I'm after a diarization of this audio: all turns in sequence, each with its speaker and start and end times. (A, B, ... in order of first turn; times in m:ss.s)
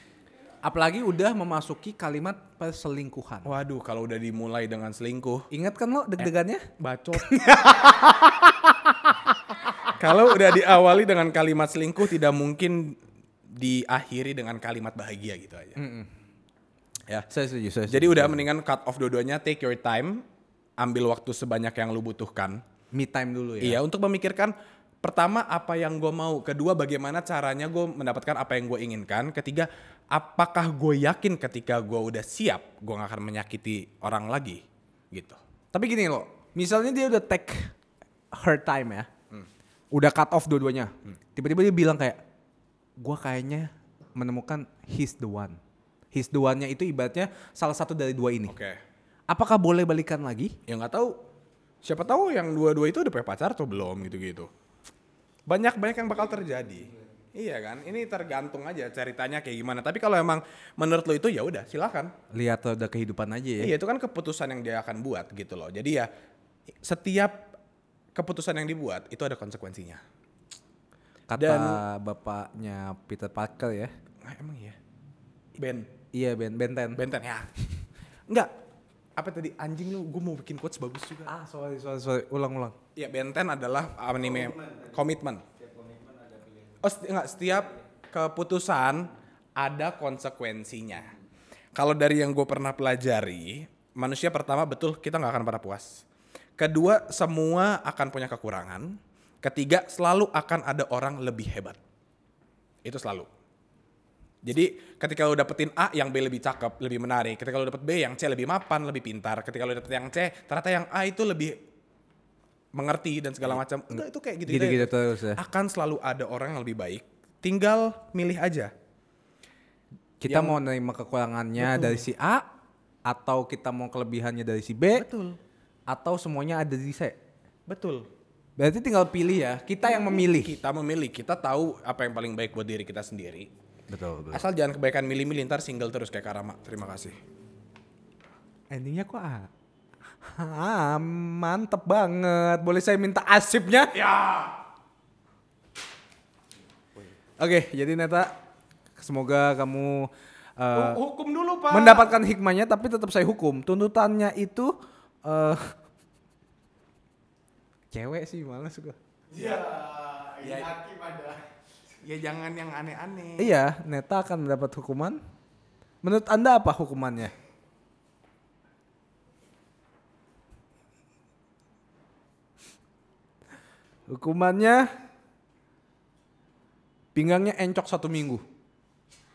0:00.6-0:03.5 A
0:03.4-0:05.4 B
0:05.5-0:06.7 A
0:06.2-0:07.8 B
0:07.2-0:08.7 A
0:10.0-0:13.0 B
0:13.5-0:15.8 B
0:15.8-0:16.1 A
0:17.3-0:18.4 A
0:17.9-0:20.2 B
0:20.8-0:22.6 B
0:22.9-0:23.8 A
0:23.6-0:35.4 B
0:35.7-0:37.7 A
0:38.3-0:39.1 A
0:39.9-0:42.2 A
0:43.0-0:45.6 A
0:46.1-0:48.5 A
0:48.5-0:48.8 B
0:49.3-0:50.6 A
0:50.7-0:51.2 B
0:51.8-0:54.5 B
0:55.5-1:02.1 B
1:02.3-1:03.7 A
1:03.6-1:06.1 B
1:06.8-1:07.5 B
1:08.1-1:10.0 B
1:11.3-1:13.9 A
1:11.4-1:11.8 B
1:14.2-1:14.8 B
1:15.6-1:15.9 B
1:16.1-1:17.0 A
1:16.9-1:17.5 B
1:19.2-1:21.3 B
1:21.3-1:22.7 A
1:23.0-1:25.4 B
1:26.8-1:31.1 B
1:31.7-1:36.0 B
1:36.6-1:41.8 B
1:42.8-1:43.3 B
1:44.4-1:51.6 B
1:52.7-1:58.7 B
1:53.9-1:55.4 A
2:00.2-2:02.5 A
2:00.3-2:00.6 B
2:01.6-2:02.1 B
2:03.0-2:05.0 A
2:04.9-2:05.4 B
2:05.9-2:07.2 A
2:07.7-2:08.1 B
2:08.6-2:10.6 A
2:10.0-2:13.5 B
2:13.9-2:14.4 A
2:14.3-2:17.2 B
2:18.7-2:19.5 A
2:20.2-2:23.9 A
2:23.9-2:24.6 B
2:27.4-2:28.3 A
2:29.0-2:31.0 A
2:30.7-2:32.2 B
2:31.7-2:34.7 A
2:35.2-2:35.7 A
2:37.9-2:39.0 A
2:39.3-2:41.4 B
2:42.0-2:43.5 B
2:43.4-2:45.2 A
2:46.0-2:47.3 A
2:54.1-2:54.9 A
2:57.1-2:58.4 A